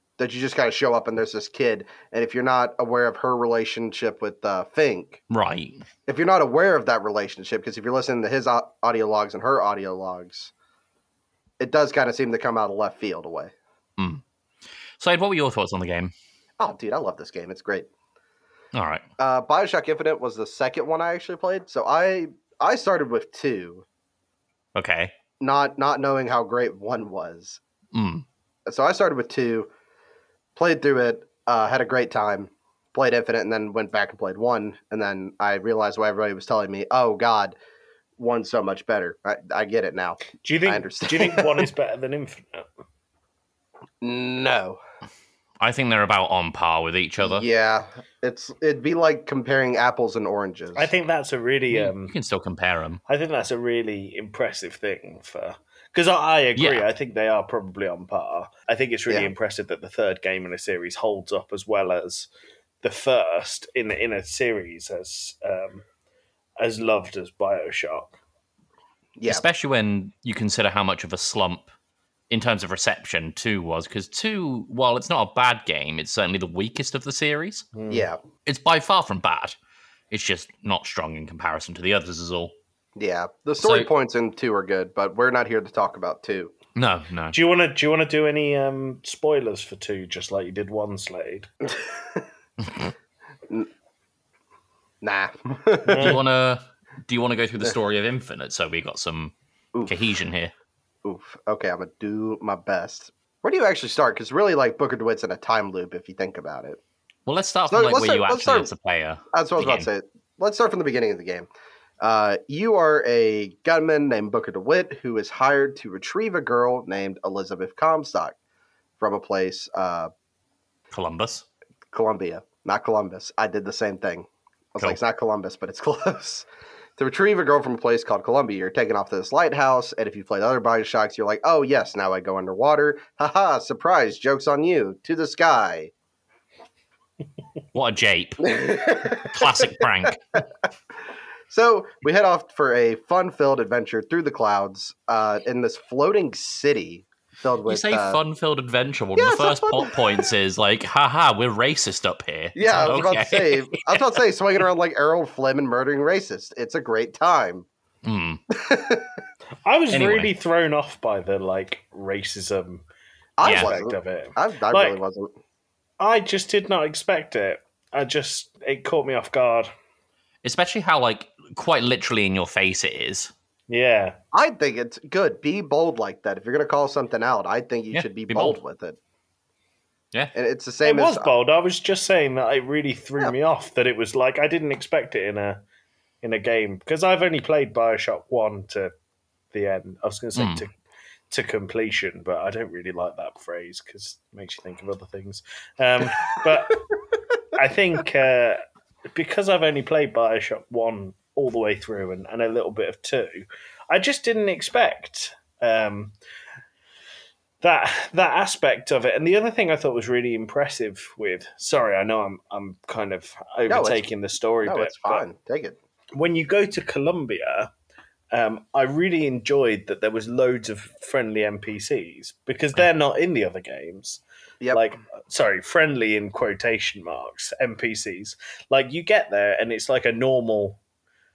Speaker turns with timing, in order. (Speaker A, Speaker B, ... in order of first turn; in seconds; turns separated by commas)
Speaker A: 0.2-5.2, Speaker B: 5.3-5.8, Speaker A: 6.1-10.5, Speaker A: 11.6-13.5, Speaker B: 14.0-14.2, Speaker B: 15.0-16.1, Speaker A: 16.6-17.9, Speaker B: 18.7-19.0, Speaker A: 19.2-23.8, Speaker B: 24.7-25.1, Speaker A: 25.4-27.6, Speaker B: 27.9-28.2, Speaker A: 28.7-29.7, Speaker A: 30.6-37.5, Speaker A: 38.2-41.6, Speaker C: 40.4-42.7, Speaker A: 44.0-44.8, Speaker B: 45.6-47.5, Speaker A: 47.2-50.9, Speaker C: 50.8-52.1, Speaker B: 51.7-53.0, Speaker C: 53.1-62.3, Speaker B: 56.5-56.9, Speaker C: 62.8-65.8, Speaker C: 66.6-68.2, Speaker A: 69.2-69.4, Speaker B: 69.3-71.7, Speaker B: 72.3-77.7, Speaker C: 77.7-78.1, Speaker A: 77.9-78.2, Speaker B: 78.5-79.5, Speaker B: 80.1-82.5, Speaker A: 83.0-86.5, Speaker B: 83.6-83.9, Speaker B: 86.7-87.4, Speaker C: 87.3-91.5, Speaker A: 95.0-96.2, Speaker C: 95.8-96.2, Speaker B: 95.9-99.3, Speaker B: 99.8-100.5, Speaker A: 101.0-106.8, Speaker B: 107.2-109.9, Speaker A: 107.7-108.7, Speaker A: 109.3-111.5, Speaker A: 112.0-118.3, Speaker A: 119.0-120.1, Speaker B: 120.9-121.5, Speaker A: 121.9-126.5, Speaker A: 127.0-135.9, Speaker B: 137.7-140.2, Speaker A: 138.4-139.8, Speaker A: 141.5-148.2, Speaker B: 147.7-154.0, Speaker A: 149.2-150.3, Speaker A: 152.5-157.7, Speaker B: 158.0-158.4, Speaker A: 158.5-159.1, Speaker C: 159.6-162.8, Speaker B: 159.9-160.3, Speaker A: 163.4-165.3, Speaker C: 163.4-165.0, Speaker B: 163.4-163.7, Speaker C: 166.0-169.7, Speaker B: 170.4-173.3, Speaker C: 173.7-174.2, Speaker A: 174.3-179.0, Speaker B: 177.9-178.6, Speaker A: 180.3-181.3, Speaker C: 180.8-185.6, Speaker C: 186.2-188.9, Speaker C: 189.5-190.7, Speaker B: 190.3-190.7, Speaker C: 191.3-196.8, Speaker C: 197.5-206.1, Speaker C: 207.6-215.2, Speaker A: 213.7-214.0, Speaker A: 214.6-215.8, Speaker C: 216.1-217.7, Speaker C: 218.3-224.2, Speaker C: 224.7-230.8